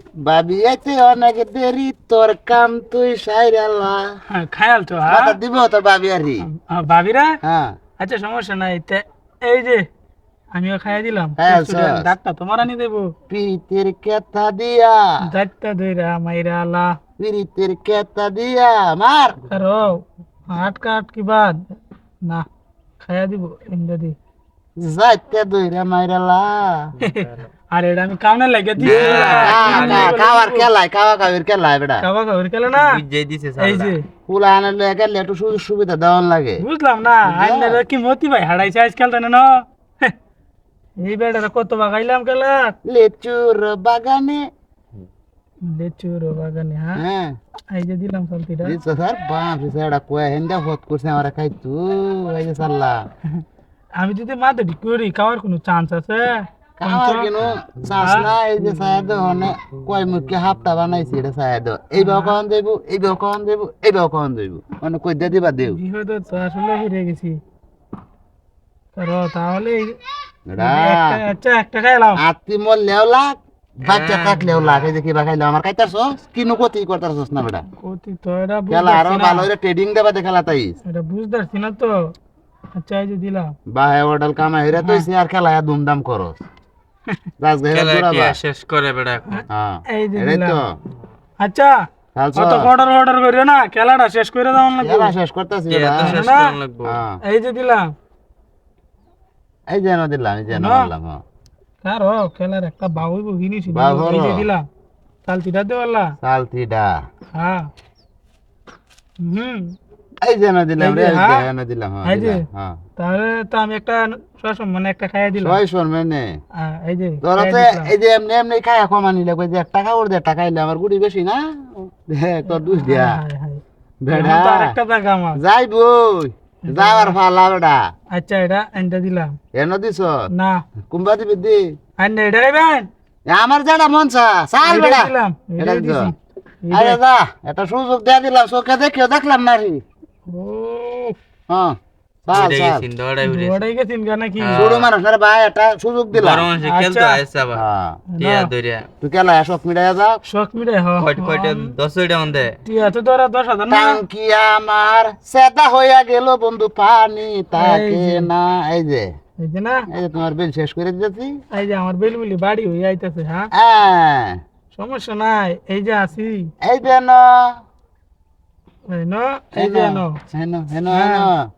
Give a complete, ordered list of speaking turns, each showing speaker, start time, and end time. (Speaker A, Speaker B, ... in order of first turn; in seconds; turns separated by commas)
Speaker A: 0.2-4.1, Speaker B: 4.3-5.4, Speaker A: 5.1-6.5, Speaker B: 6.5-7.4, Speaker A: 7.4-7.7, Speaker B: 8.0-9.8, Speaker B: 10.5-13.1, Speaker A: 11.4-12.1, Speaker A: 13.3-15.2, Speaker B: 15.2-17.0, Speaker A: 17.2-19.4, Speaker B: 19.5-21.7, Speaker B: 23.0-24.2, Speaker A: 24.8-26.9, Speaker B: 27.0-30.7, Speaker C: 28.8-30.1, Speaker A: 29.0-32.0, Speaker B: 32.0-33.0, Speaker C: 32.7-34.0, Speaker B: 33.6-34.0, Speaker A: 34.3-36.6, Speaker B: 36.6-40.1, Speaker A: 37.2-37.8, Speaker B: 41.0-42.7, Speaker A: 42.9-44.5, Speaker B: 45.6-47.0, Speaker A: 47.0-47.4, Speaker B: 47.7-48.8, Speaker A: 48.6-53.0, Speaker B: 54.0-57.3, Speaker A: 56.8-65.8, Speaker B: 58.0-58.3, Speaker B: 62.0-62.4, Speaker B: 65.6-67.4, Speaker B: 69.0-70.0, Speaker A: 70.5-71.2, Speaker B: 70.6-72.2, Speaker A: 72.2-77.7, Speaker C: 73.8-74.9, Speaker B: 77.7-79.5, Speaker A: 78.7-80.8, Speaker B: 80.9-82.1, Speaker B: 82.8-83.5, Speaker A: 83.7-86.4, Speaker B: 84.8-85.0, Speaker A: 87.4-88.4, Speaker C: 87.7-89.5, Speaker A: 89.5-90.7, Speaker B: 89.9-90.6, Speaker B: 91.4-91.7, Speaker A: 92.2-92.7, Speaker B: 92.4-95.1, Speaker A: 94.8-96.2, Speaker C: 95.7-97.0, Speaker B: 96.1-96.5, Speaker A: 96.9-97.2, Speaker B: 97.3-97.9, Speaker A: 99.7-101.2, Speaker B: 100.5-100.9, Speaker B: 101.8-104.6, Speaker A: 103.7-104.5, Speaker B: 105.2-106.2, Speaker A: 106.2-106.9, Speaker B: 107.4-107.7, Speaker B: 109.2-109.8, Speaker A: 110.2-112.8, Speaker B: 110.8-111.5, Speaker B: 112.0-112.4, Speaker B: 113.0-115.6, Speaker A: 115.4-116.3, Speaker B: 116.6-117.9, Speaker A: 117.2-123.2, Speaker B: 122.5-125.4, Speaker A: 124.0-124.7, Speaker A: 125.4-127.8, Speaker B: 126.7-127.2, Speaker B: 128.1-129.4, Speaker A: 129.5-130.2, Speaker B: 130.3-130.6, Speaker A: 130.9-131.7, Speaker B: 132.0-132.9, Speaker A: 133.3-136.1, Speaker B: 134.6-137.0, Speaker A: 136.7-139.8, Speaker B: 140.3-141.2, Speaker A: 141.5-141.8, Speaker A: 142.3-142.9, Speaker C: 142.3-143.6, Speaker B: 143.2-144.7, Speaker C: 144.4-144.9, Speaker A: 144.6-146.5, Speaker C: 146.1-147.6, Speaker B: 146.6-147.2, Speaker A: 147.5-148.0, Speaker B: 148.1-148.5, Speaker C: 148.2-148.9, Speaker A: 149.0-150.2, Speaker B: 150.3-151.7, Speaker C: 151.0-152.6, Speaker B: 152.7-154.0, Speaker A: 153.7-159.1, Speaker B: 157.6-158.3, Speaker B: 159.4-159.9, Speaker A: 159.9-161.4, Speaker B: 161.5-163.5, Speaker A: 163.6-164.4, Speaker B: 164.7-166.5, Speaker A: 166.6-167.6, Speaker B: 168.9-170.2, Speaker A: 169.6-171.5, Speaker B: 170.9-171.3